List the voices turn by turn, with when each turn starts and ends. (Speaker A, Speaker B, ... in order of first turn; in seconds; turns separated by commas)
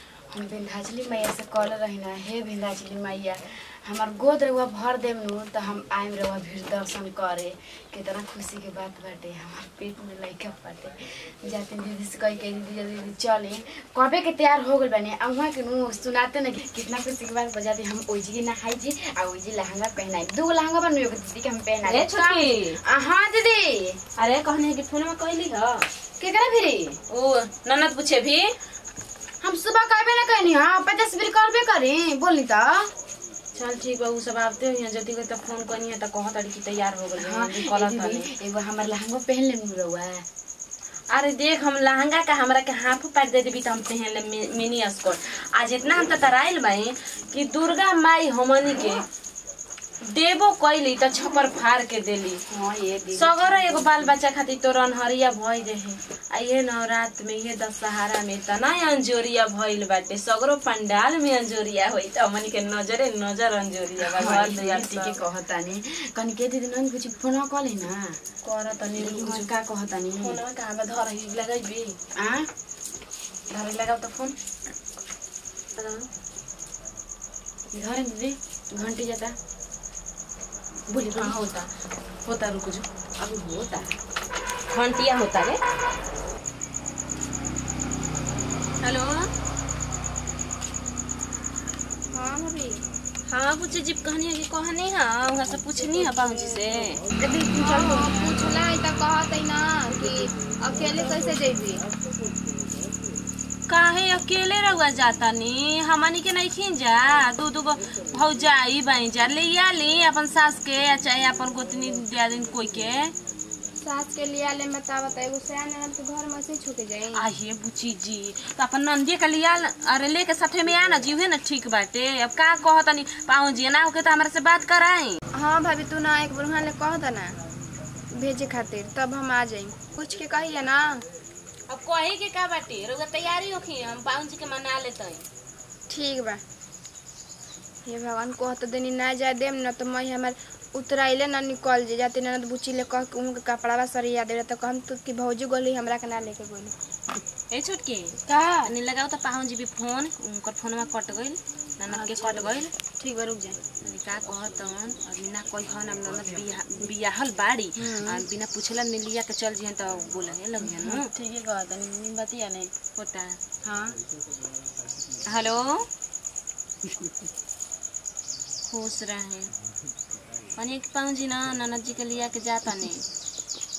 Speaker A: 0.3-24.0, Speaker B: 21.8-22.8, Speaker B: 24.2-25.9, Speaker A: 26.2-27.0, Speaker B: 27.1-28.5, Speaker A: 29.4-32.9, Speaker B: 33.5-38.3, Speaker A: 37.2-40.2, Speaker B: 41.1-49.0, Speaker B: 50.0-52.4, Speaker A: 52.5-54.1, Speaker B: 53.1-65.2, Speaker A: 64.0-68.2, Speaker B: 68.4-69.5, Speaker A: 68.9-70.4, Speaker B: 70.2-72.0, Speaker A: 72.1-72.5, Speaker B: 73.5-74.3, Speaker B: 75.8-76.0, Speaker A: 77.7-79.3, Speaker A: 80.9-81.4, Speaker B: 80.9-81.7, Speaker B: 82.2-82.8, Speaker A: 83.2-83.9, Speaker B: 84.7-85.6, Speaker B: 88.8-89.3, Speaker C: 92.1-92.8, Speaker B: 93.3-97.0, Speaker C: 97.2-101.8, Speaker A: 97.6-98.1, Speaker B: 103.7-113.1, Speaker C: 113.8-117.2, Speaker B: 117.1-125.2, Speaker C: 125.3-127.3, Speaker C: 128.1-131.0, Speaker B: 131.7-135.2, Speaker C: 135.9-136.4, Speaker C: 137.8-146.7, Speaker B: 147.5-152.7, Speaker C: 148.3-148.7, Speaker C: 152.1-153.6, Speaker B: 153.8-161.1, Speaker A: 157.8-158.2, Speaker A: 160.6-162.7, Speaker B: 162.9-163.4, Speaker A: 163.6-163.9, Speaker B: 165.3-165.8, Speaker B: 168.7-169.5, Speaker B: 170.6-173.0